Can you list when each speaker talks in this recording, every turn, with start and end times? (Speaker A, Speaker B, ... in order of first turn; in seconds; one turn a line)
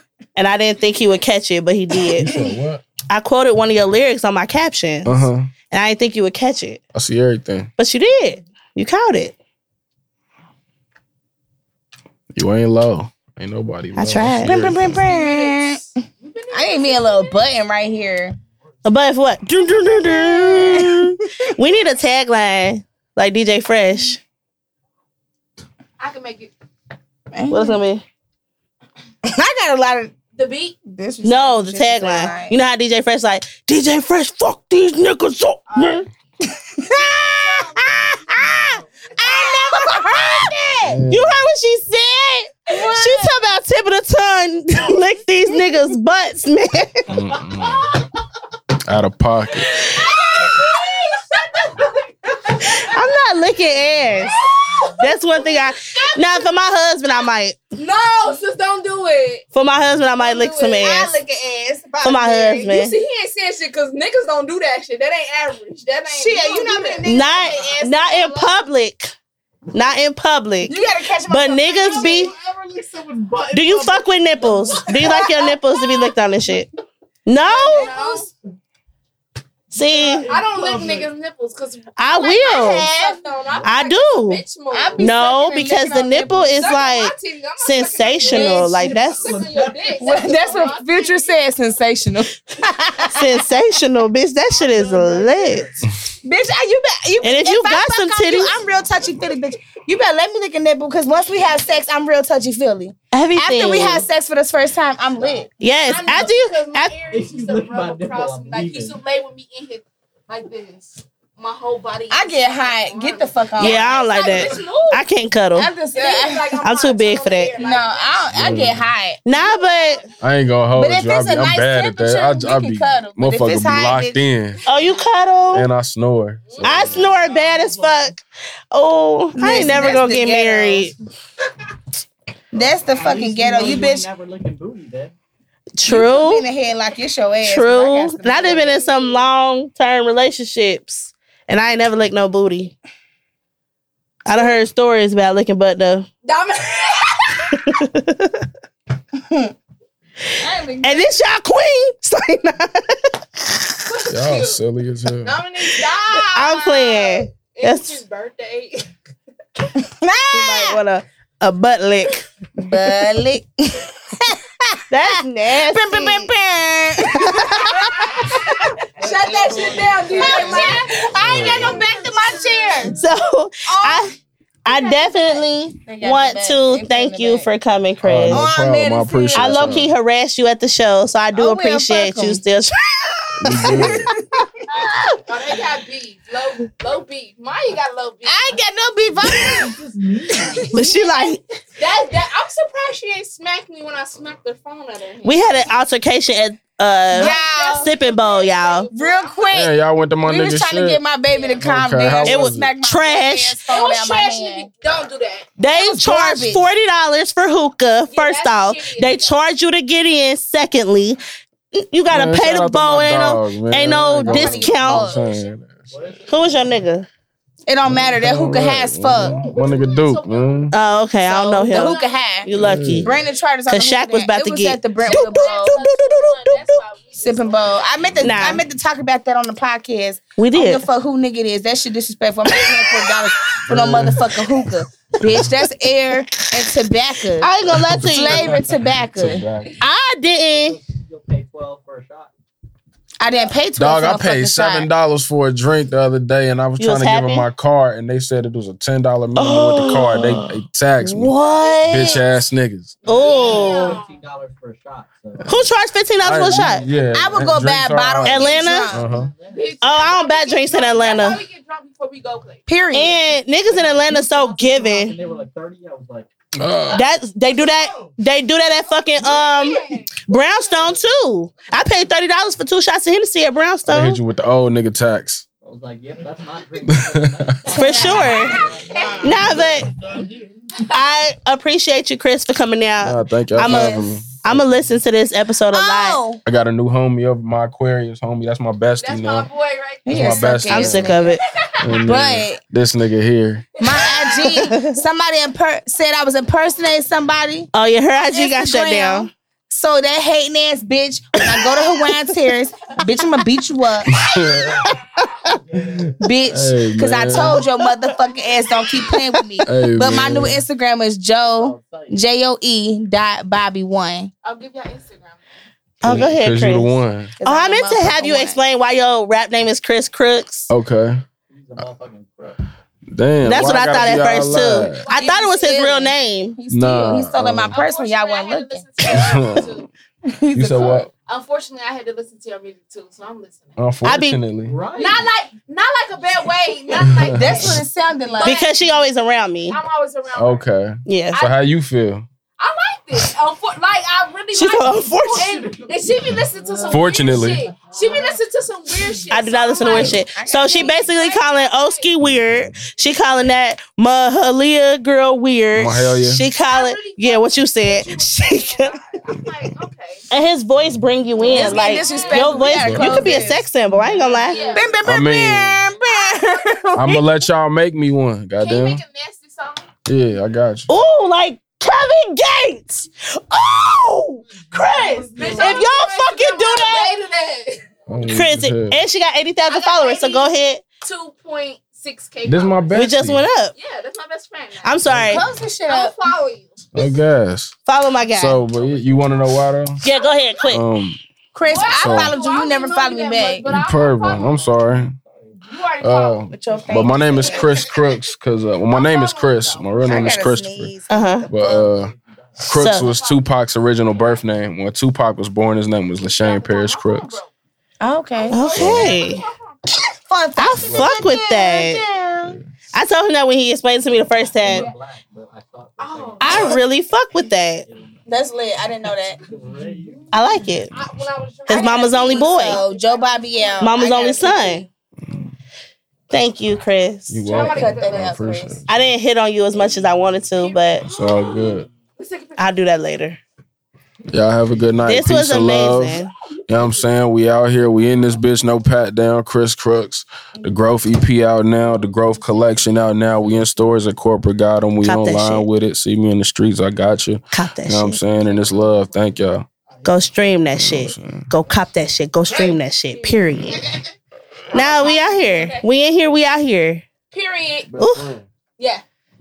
Speaker A: 0.4-2.3
Speaker B: 2.2-2.8
Speaker A: 3.1-6.8
Speaker B: 5.0-5.5
Speaker B: 6.9-7.7
Speaker A: 7.8-9.3
Speaker B: 12.3-15.0
Speaker A: 13.9-14.7
Speaker C: 14.4-15.9
Speaker D: 14.8-17.5
Speaker C: 16.5-18.4
Speaker A: 18.9-24.2
Speaker C: 19.8-21.5
Speaker D: 26.0-26.5
Speaker C: 27.3-27.8
Speaker A: 27.5-28.0
Speaker C: 29.2-30.1
Speaker D: 30.3-30.8
Speaker C: 30.9-32.6
Speaker A: 31.2-36.1
Speaker D: 35.7-36.0
Speaker C: 36.5-41.0
Speaker D: 37.0-38.4
Speaker A: 39.9-40.5
Speaker B: 40.8-41.4
Speaker A: 41.1-47.1
Speaker C: 42.7-43.2
Speaker D: 42.7-43.3
Speaker E: 47.1-47.6
Speaker B: 47.1-47.9
Speaker D: 47.8-48.1
Speaker B: 48.9-49.9
Speaker D: 49.6-53.1
Speaker C: 50.1-51.0
Speaker A: 52.7-54.3
Speaker D: 54.2-59.5
Speaker A: 54.9-57.6
Speaker A: 59.5-61.2
Speaker C: 60.2-62.7
Speaker D: 60.8-61.1
Speaker A: 62.0-63.0
Speaker D: 62.6-68.7
Speaker C: 66.1-67.3
Speaker A: 67.0-69.1
Speaker A: 69.7-72.3
Speaker C: 70.6-72.4
Speaker D: 71.8-72.3
Speaker A: 73.5-76.7
Speaker C: 74.7-75.6
Speaker A: 77.3-77.9
Speaker D: 77.4-78.3
Speaker C: 77.7-78.3
Speaker A: 79.7-80.3
Speaker D: 80.1-85.3
Speaker E: 80.2-81.1
Speaker A: 82.0-82.9
Speaker C: 82.6-83.3
Speaker E: 83.5-83.8
Speaker A: 83.6-84.4
Speaker C: 84.7-86.7
Speaker A: 85.0-89.5
Speaker D: 86.5-91.4
Speaker E: 88.2-90.3
Speaker C: 88.3-88.6
Speaker C: 90.0-93.4
Speaker A: 93.1-95.7
Speaker D: 94.5-95.7
Speaker E: 94.6-95.6
Speaker C: 96.2-105.5
Speaker A: 97.2-98.6
Speaker A: 103.1-104.0
Speaker E: 105.2-106.3
Speaker A: 105.6-106.9
Speaker D: 105.8-115.1
Speaker E: 107.1-109.0
Speaker C: 112.1-114.0
Speaker A: 113.6-115.7
Speaker C: 115.5-116.6
Speaker D: 115.9-118.5
Speaker A: 116.6-117.6
Speaker C: 117.5-119.2
Speaker B: 118.3-118.8
Speaker A: 119.2-120.0
Speaker D: 119.3-120.2
Speaker B: 120.2-124.6
Speaker C: 120.7-124.2
Speaker D: 124.6-125.1
Speaker A: 124.7-125.7
Speaker B: 125.5-127.1
Speaker D: 126.5-127.5
Speaker A: 126.6-130.9
Speaker C: 129.4-130.9
Speaker C: 132.5-134.1
Speaker E: 132.5-135.1
Speaker A: 135.8-136.5
Speaker C: 135.8-138.9
Speaker A: 137.4-142.7
Speaker D: 138.5-139.2
Speaker A: 144.2-146.1
Speaker D: 146.2-147.7
Speaker A: 147.5-148.5
Speaker C: 150.4-151.1
Speaker A: 150.8-153.2
Speaker D: 153.8-154.6
Speaker B: 154.1-155.4
Speaker D: 155.2-158.9
Speaker A: 156.2-158.0
Speaker C: 159.7-160.8
Speaker A: 160.3-162.2
Speaker C: 162.6-173.0
Speaker A: 164.9-166.3
Speaker A: 167.3-168.0
Speaker D: 168.2-172.8
Speaker E: 169.6-169.9
Speaker A: 170.2-170.7
Speaker B: 171.1-171.9
Speaker A: 172.9-178.5
Speaker C: 173.6-174.1
Speaker C: 174.7-177.5
Speaker B: 178.0-179.9
Speaker C: 178.2-179.8
Speaker A: 179.3-182.8
Speaker C: 181.3-182.4
Speaker C: 183.4-184.6
Speaker B: 183.4-184.1
Speaker D: 184.7-188.6
Speaker C: 188.2-189.7
Speaker E: 189.3-190.8
Speaker A: 190.7-191.4
Speaker D: 190.8-195.7
Speaker A: 195.2-198.9
Speaker D: 197.1-199.6
Speaker C: 197.1-197.9
Speaker C: 198.9-204.7
Speaker B: 199.5-201.0
Speaker D: 201.3-201.7
Speaker B: 201.6-202.7
Speaker A: 202.2-203.6
Speaker D: 203.7-205.5
Speaker A: 205.6-211.2
Speaker C: 205.7-206.7
Speaker D: 208.1-209.4
Speaker A: 211.7-215.2
Speaker B: 212.1-215.8
Speaker C: 214.3-215.2
Speaker E: 215.2-216.8
Speaker A: 216.3-217.1
Speaker C: 217.7-219.4
Speaker B: 217.8-220.7
Speaker E: 219.2-220.0
Speaker D: 219.4-220.8
Speaker A: 220.7-223.2
Speaker C: 221.2-225.8
Speaker D: 221.5-222.4
Speaker B: 222.5-223.1
Speaker A: 223.7-226.8
Speaker D: 225.0-228.4
Speaker C: 227.2-239.5
Speaker A: 228.2-228.6
Speaker A: 230.4-230.8
Speaker A: 232.5-233.2
Speaker B: 233.7-234.5
Speaker A: 237.4-238.6
Speaker B: 237.7-239.8
Speaker A: 239.8-240.8
Speaker E: 240.5-242.3
Speaker C: 243.2-244.9
Speaker B: 243.8-253.0
Speaker A: 246.8-247.5
Speaker A: 249.4-252.3
Speaker D: 251.4-252.2
Speaker A: 253.1-254.0
Speaker E: 253.1-257.5
Speaker D: 253.1-254.2
Speaker A: 255.5-256.8
Speaker B: 256.2-259.3
Speaker C: 257.1-259.1
Speaker A: 258.2-258.9
Speaker E: 258.8-260.1
Speaker D: 259.5-262.7
Speaker A: 259.8-261.4
Speaker C: 262.7-263.3
Speaker A: 262.9-265.1
Speaker E: 263.6-266.3
Speaker B: 266.6-267.1
Speaker A: 266.9-274.2
Speaker D: 269.2-270.7
Speaker B: 273.9-275.4
Speaker E: 275.6-279.7
Speaker B: 276.9-277.7
Speaker D: 277.7-279.7
Speaker A: 277.8-278.7
Speaker A: 279.2-280.0
Speaker A: 280.8-286.2
Speaker B: 283.0-284.6
Speaker C: 283.6-284.2
Speaker C: 285.7-286.4
Speaker B: 286.4-289.5
Speaker D: 289.0-292.1
Speaker B: 290.1-291.2
Speaker C: 290.1-291.4
Speaker A: 290.7-291.4
Speaker B: 291.8-293.7
Speaker C: 292.0-292.6
Speaker D: 293.8-294.8
Speaker C: 293.8-297.7
Speaker A: 294.4-295.0
Speaker A: 297.7-299.3
Speaker C: 298.3-304.1
Speaker A: 301.6-302.1
Speaker B: 304.1-305.0
Speaker D: 304.2-304.9
Speaker B: 305.8-307.6
Speaker C: 306.2-314.3
Speaker B: 309.6-310.6
Speaker E: 311.4-312.2
Speaker D: 314.4-315.4
Speaker B: 316.0-317.3
Speaker A: 316.0-320.7
Speaker C: 317.4-318.6
Speaker B: 320.7-321.2
Speaker E: 321.5-322.6
Speaker B: 323.1-325.1
Speaker A: 323.4-326.6
Speaker E: 323.6-324.8
Speaker D: 324.9-326.1
Speaker C: 325.1-328.9
Speaker B: 326.7-327.8
Speaker D: 327.7-329.9
Speaker B: 329.0-329.7
Speaker C: 330.2-331.1
Speaker B: 330.5-331.1
Speaker D: 331.3-333.8
Speaker B: 333.8-334.8
Speaker A: 334.0-334.4
Speaker E: 334.6-335.3
Speaker D: 334.9-338.8
Speaker B: 337.0-337.8
Speaker C: 337.3-338.6
Speaker A: 338.4-339.8
Speaker D: 339.7-340.7
Speaker B: 340.4-342.3
Speaker A: 341.1-341.4
Speaker D: 342.6-352.1
Speaker A: 344.5-345.7
Speaker B: 346.9-347.8
Speaker A: 349.3-359.0
Speaker C: 349.8-350.9
Speaker B: 355.7-356.4
Speaker D: 356.5-360.3
Speaker A: 360.3-364.8
Speaker D: 361.4-363.5
Speaker C: 361.4-363.7
Speaker B: 362.6-363.3
Speaker D: 364.0-365.1
Speaker C: 364.6-367.2
Speaker B: 365.0-365.8
Speaker D: 365.9-366.9
Speaker B: 367.0-369.0
Speaker D: 368.6-369.9
Speaker B: 370.1-370.9
Speaker A: 370.9-377.2
Speaker D: 374.8-377.9
Speaker B: 378.1-379.0
Speaker A: 378.3-380.8
Speaker D: 379.7-383.0
Speaker B: 382.5-383.4
Speaker A: 382.9-383.7
Speaker D: 383.7-385.3
Speaker A: 384.8-385.4
Speaker B: 385.1-385.4
Speaker C: 385.2-386.1
Speaker D: 385.9-387.1
Speaker B: 386.9-387.8
Speaker A: 387.9-388.6
Speaker B: 388.3-390.0
Speaker E: 388.7-389.5
Speaker A: 390.0-390.9
Speaker D: 390.0-390.7
Speaker B: 390.7-391.2
Speaker C: 391.5-393.7
Speaker D: 391.7-394.5
Speaker B: 392.0-392.4
Speaker B: 393.6-395.2
Speaker E: 394.2-395.6
Speaker D: 395.6-396.6
Speaker B: 396.0-400.9
Speaker C: 396.5-397.7
Speaker D: 397.3-398.1
Speaker D: 398.9-400.4
Speaker C: 400.0-401.9
Speaker A: 401.1-401.5
Speaker B: 401.5-407.4
Speaker E: 401.6-402.9
Speaker A: 402.8-403.1
Speaker D: 402.9-403.5
Speaker D: 404.1-404.4
Speaker D: 406.2-407.5
Speaker C: 408.0-408.6
Speaker D: 408.4-409.8
Speaker A: 408.5-409.4
Speaker B: 408.7-409.2
Speaker C: 409.9-412.6
Speaker A: 410.6-412.0
Speaker B: 410.8-411.3
Speaker A: 412.9-414.9
Speaker E: 414.2-416.8
Speaker D: 414.6-414.9
Speaker D: 416.0-416.8
Speaker C: 416.4-416.8
Speaker A: 416.4-417.9
Speaker E: 417.8-418.3
Speaker C: 418.3-419.4
Speaker E: 419.4-420.6
Speaker A: 420.3-420.9
Speaker D: 420.9-424.4
Speaker A: 421.7-422.8
Speaker C: 421.7-424.9
Speaker A: 423.8-424.9
Speaker A: 426.3-427.5
Speaker B: 427.3-428.9
Speaker D: 427.5-428.4
Speaker C: 427.5-428.8
Speaker A: 428.9-431.1
Speaker D: 430.5-432.9
Speaker B: 431.1-431.9
Speaker A: 432.6-433.4
Speaker B: 434.3-449.7
Speaker A: 435.1-436.3
Speaker A: 445.0-445.7
Speaker A: 447.5-448.2
Speaker A: 450.1-453.9
Speaker B: 450.7-451.5
Speaker D: 452.5-453.7
Speaker D: 454.7-455.9
Speaker A: 454.7-457.1
Speaker D: 457.3-458.0
Speaker B: 457.9-458.4
Speaker A: 458.0-458.3
Speaker D: 458.8-459.0